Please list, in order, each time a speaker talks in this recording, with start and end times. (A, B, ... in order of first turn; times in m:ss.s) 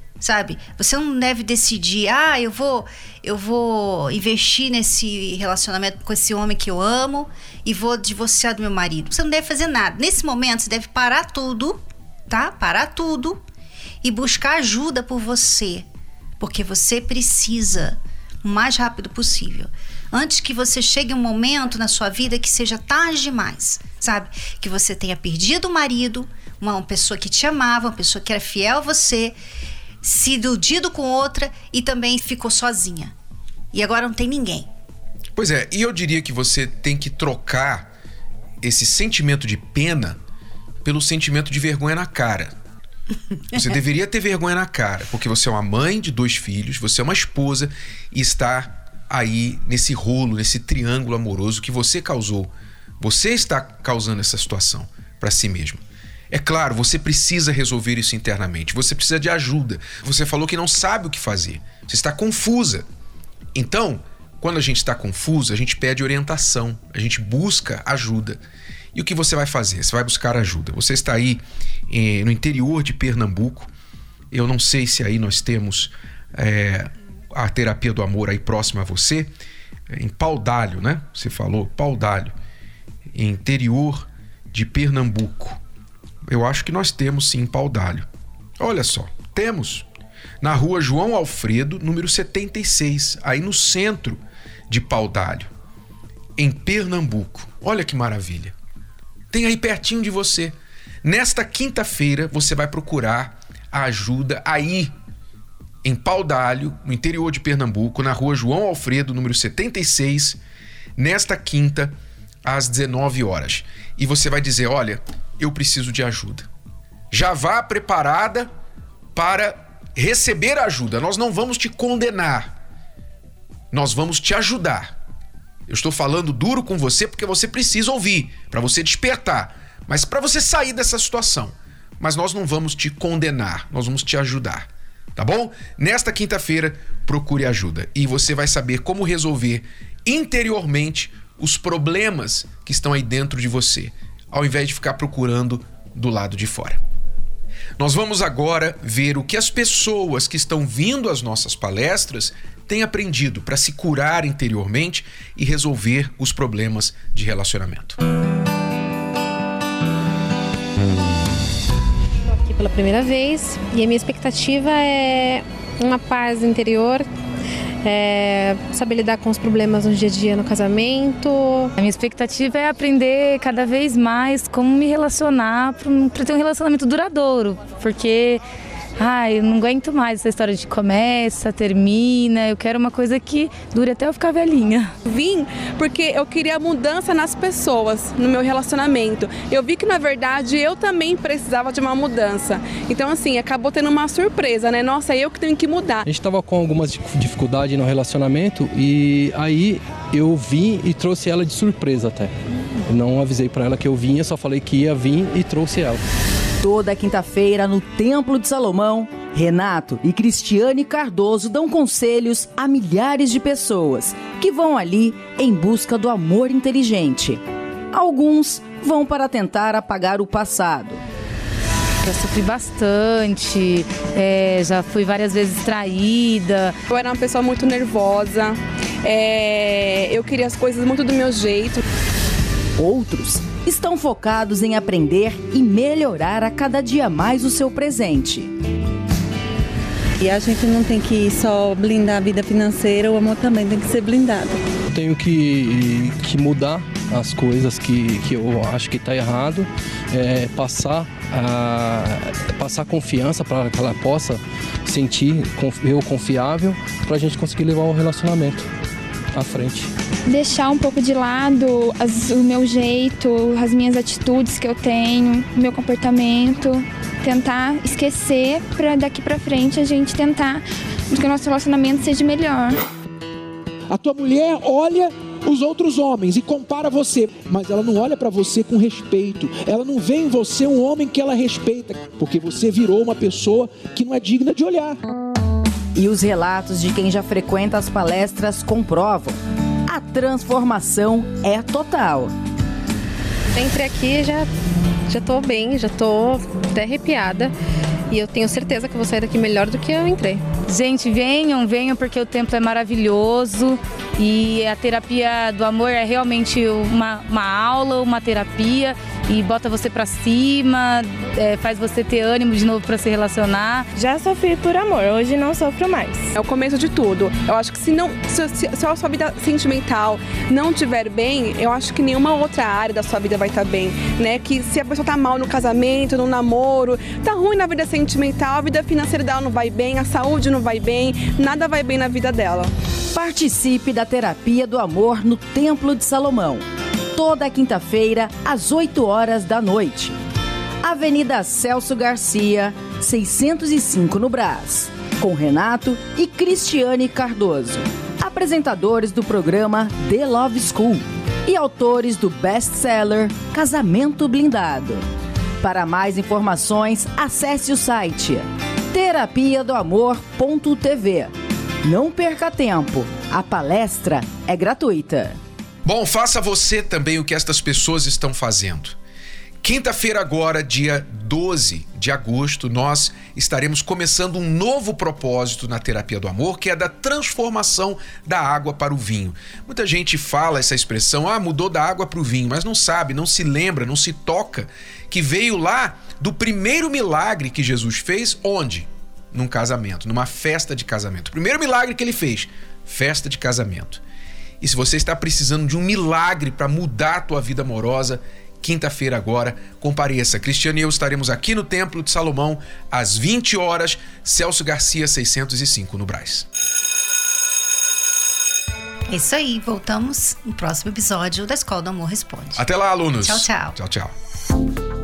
0:00.2-0:13.4 A
0:14.0-0:15.9 A
0:16.4-0:29.4 A
0:30.0-0:33.1 A
0:33.7-0:34.7 A
0:35.3-0:37.9 B
0:38.6-0:40.2 B
0:40.8-0:42.5 B
0:43.5-1:02.8 B
1:03.5-1:08.4 B
1:08.9-1:13.7 B
1:14.3-1:19.3 B
1:19.9-1:22.3 B
1:23.1-1:25.6 B
1:26.2-1:28.1 B
1:28.6-1:29.8 B
1:30.4-1:35.5 B
1:36.4-1:38.5 B
1:39.3-1:44.9 B
1:45.8-1:50.4 B
1:51.0-1:56.5 B
1:57.1-1:58.5 B
1:59.1-2:02.5 B
2:03.7-2:04.9 B
2:05.7-2:26.8 B
2:27.8-2:38.0 B
2:42.2-2:47.0 C
2:47.8-2:51.7 C
2:51.8-2:58.4 D
2:59.0-3:04.9 D
3:05.0-3:16.0 E
3:16.0-3:26.0 F
3:26.6-3:41.0 G
3:42.0-3:46.8 D
3:46.9-3:51.8 E
3:52.8-3:58.5 G
4:00.2-4:04.5 H
4:04.9-4:18.7 F
4:19.3-4:19.9 F
4:20.2-4:32.8 I
4:33.9-4:45.0 J
4:45.9-4:52.3 G
4:53.5-4:54.5 C
4:55.1-4:57.5 C
4:58.1-5:00.4 C
5:00.7-5:13.9 D
5:14.0-5:16.3 K
5:16.3-5:32.7 E
5:33.1-5:40.2 G
5:40.8-5:55.0 G
5:55.6-6:01.3 G
6:01.8-6:05.4 G
6:05.8-6:09.0 B
6:09.6-6:34.0 B
6:34.6-6:46.4 B
6:49.1-6:52.6 A
6:52.6-6:54.1 B
6:53.2-6:53.8 A